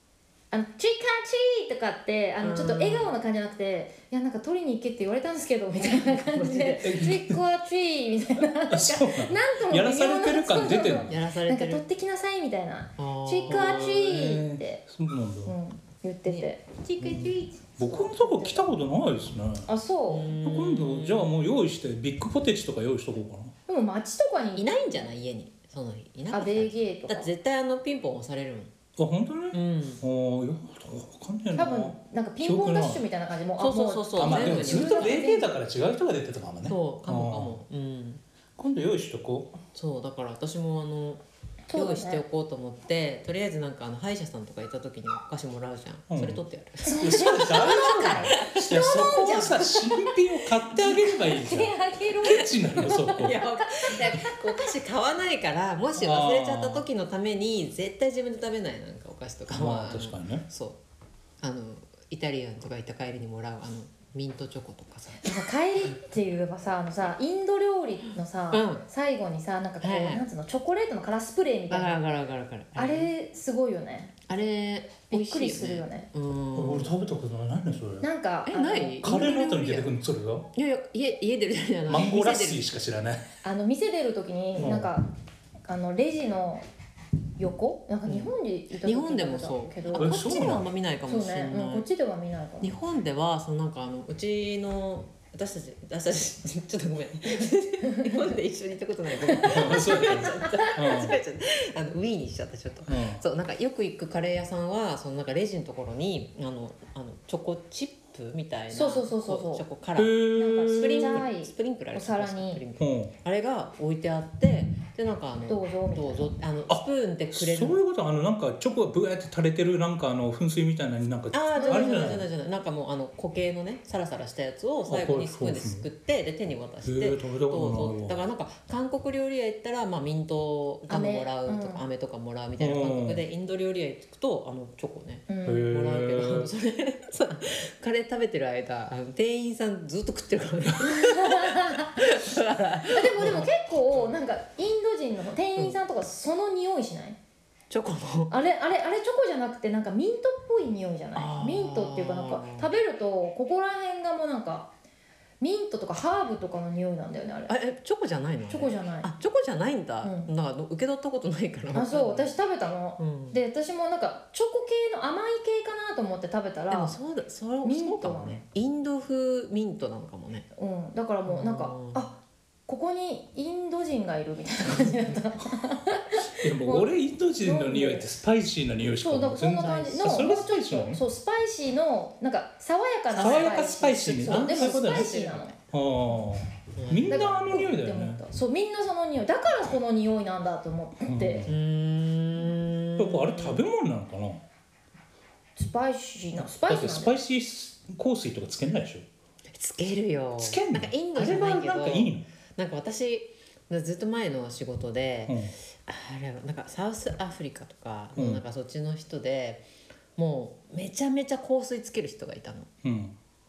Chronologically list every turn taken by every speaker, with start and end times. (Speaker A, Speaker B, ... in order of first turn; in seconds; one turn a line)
Speaker A: 0.5-14.8
Speaker B: 2.4-3.2
Speaker B: 5.8-7.1
Speaker C: 6.8-7.4
Speaker C: 8.7-11.1
Speaker B: 11.0-11.8
Speaker B: 13.0-14.0
Speaker C: 13.5-15.5
Speaker A: 15.4-18.6
Speaker C: 17.0-19.7
Speaker A: 19.6-20.3
Speaker B: 20.1-21.4
Speaker C: 20.4-23.5
Speaker A: 23.7-25.1
Speaker B: 24.6-28.7
Speaker A: 26.3-27.3
Speaker C: 29.0-33.0
Speaker B: 29.5-30.0
Speaker A: 31.5-35.5
Speaker B: 33.6-35.3
Speaker C: 34.1-37.6
Speaker B: 36.6-38.2
Speaker C: 38.6-39.6
Speaker B: 39.7-41.2
Speaker A: 41.7-42.2
Speaker B: 41.7-49.6
Speaker C: 46.1-53.4
Speaker A: 46.8-54.7
Speaker B: 52.9-60.8
Speaker C: 56.0-56.8
Speaker C: 59.5-60.4
Speaker B: 61.4-65.3
Speaker A: 65.2-72.0
Speaker B: 68.5-68.8
Speaker B: 69.8-70.2
Speaker B: 71.7-73.1
Speaker A: 72.7-74.2
Speaker B: 74.3-76.9
Speaker A: 75.1-76.1
Speaker C: 76.5-78.1
Speaker A: 78.0-79.9
Speaker B: 78.5-79.4
Speaker C: 79.0-80.5
Speaker B: 80.5-82.8
Speaker C: 81.9-83.3
Speaker A: 83.4-85.1
Speaker C: 84.6-84.9
Speaker A: 85.7-86.7
Speaker A: 87.4-90.2
Speaker B: 88.0-91.9
Speaker C: 89.9-90.7
Speaker A: 91.0-92.8
Speaker B: 92.6-117.8
Speaker A: 97.8-98.2
Speaker A: 99.2-100.7
Speaker C: 99.5-101.2
Speaker C: 102.8-103.2
Speaker A: 108.7-109.7
Speaker C: 110.0-111.2
Speaker A: 110.3-112.6
Speaker C: 112.8-113.1
Speaker A: 115.5-116.3
Speaker C: 116.7-122.3
Speaker B: 121.3-144.1
Speaker A: 121.5-122.2
Speaker C: 124.8-125.9
Speaker C: 126.8-128.2
Speaker A: 130.9-131.8
Speaker C: 132.6-133.2
Speaker A: 135.3-135.7
Speaker C: 135.4-136.5
Speaker A: 140.8-142.2
Speaker A: 142.9-147.2
Speaker B: 147.7-148.3
Speaker A: 148.3-154.7
Speaker B: 151.1-152.7
Speaker A: 155.4-157.6
Speaker B: 157.5-162.3
Speaker A: 158.5-159.1
Speaker A: 160.0-160.3
Speaker A: 161.7-166.9
Speaker B: 163.0-163.4
Speaker B: 166.7-170.5
Speaker A: 167.6-168.4
Speaker A: 170.5-176.9
Speaker B: 171.2-172.1
Speaker C: 176.4-181.0
Speaker A: 177.4-178.2
Speaker A: 179.0-185.5
Speaker B: 183.1-185.5
Speaker C: 183.1-188.2
Speaker B: 186.8-187.7
Speaker A: 187.1-191.5
Speaker C: 191.0-191.6
Speaker B: 191.4-193.6
Speaker C: 193.0-194.4
Speaker A: 195.6-197.1
Speaker C: 196.4-199.0
Speaker B: 199.5-212.7
Speaker C: 200.4-202.2
Speaker C: 205.3-205.5
Speaker C: 208.1-208.4
Speaker C: 212.8-213.2